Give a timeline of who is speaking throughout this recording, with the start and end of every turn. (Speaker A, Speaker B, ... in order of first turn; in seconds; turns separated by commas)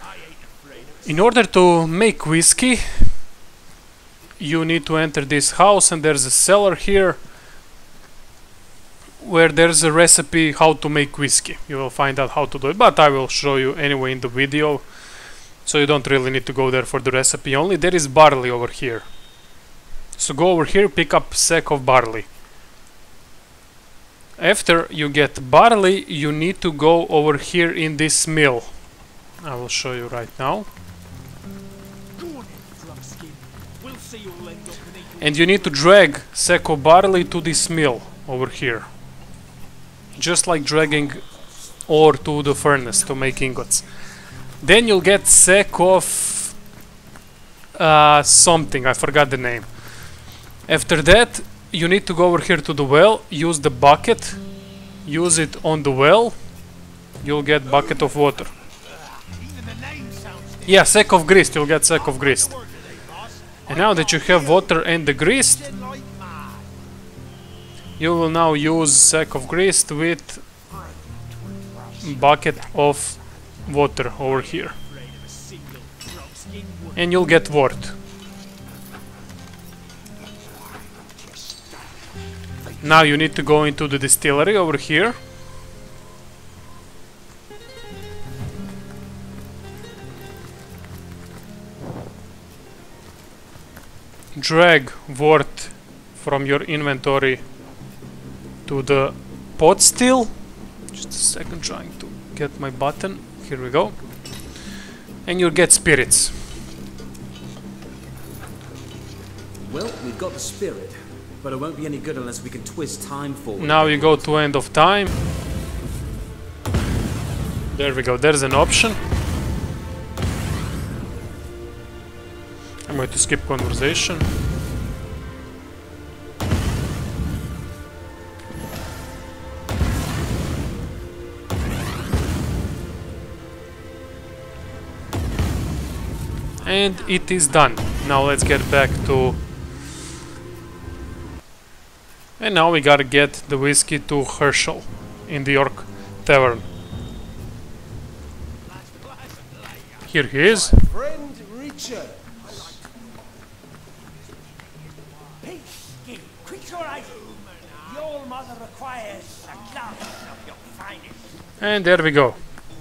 Speaker A: 1.0-3.3, Speaker A: 4.4-7.3, Speaker A: 9.2-19.5, Speaker A: 20.1-22.3, Speaker A: 24.4-30.7, Speaker B: 32.2-35.0, Speaker A: 35.2-39.0, Speaker A: 40.1-41.2, Speaker A: 41.9-46.6, Speaker A: 47.7-56.5, Speaker A: 57.2-58.5, Speaker B: 59.8-60.5, Speaker A: 60.6-62.5, Speaker A: 63.7-65.7, Speaker B: 65.8-66.5, Speaker A: 68.0-70.4, Speaker A: 72.0-74.8, Speaker B: 75.0-76.9, Speaker A: 76.9-78.0, Speaker A: 82.8-85.2, Speaker A: 94.3-97.4, Speaker A: 98.6-104.0, Speaker A: 105.2-106.5, Speaker C: 109.7-114.3, Speaker A: 113.6-115.2, Speaker A: 117.7-119.0, Speaker A: 122.8-124.3, Speaker A: 136.6-139.4, Speaker A: 142.4-146.7, Speaker A: 150.0-150.8, Speaker B: 150.9-152.1, Speaker B: 155.4-161.0, Speaker A: 161.6-162.4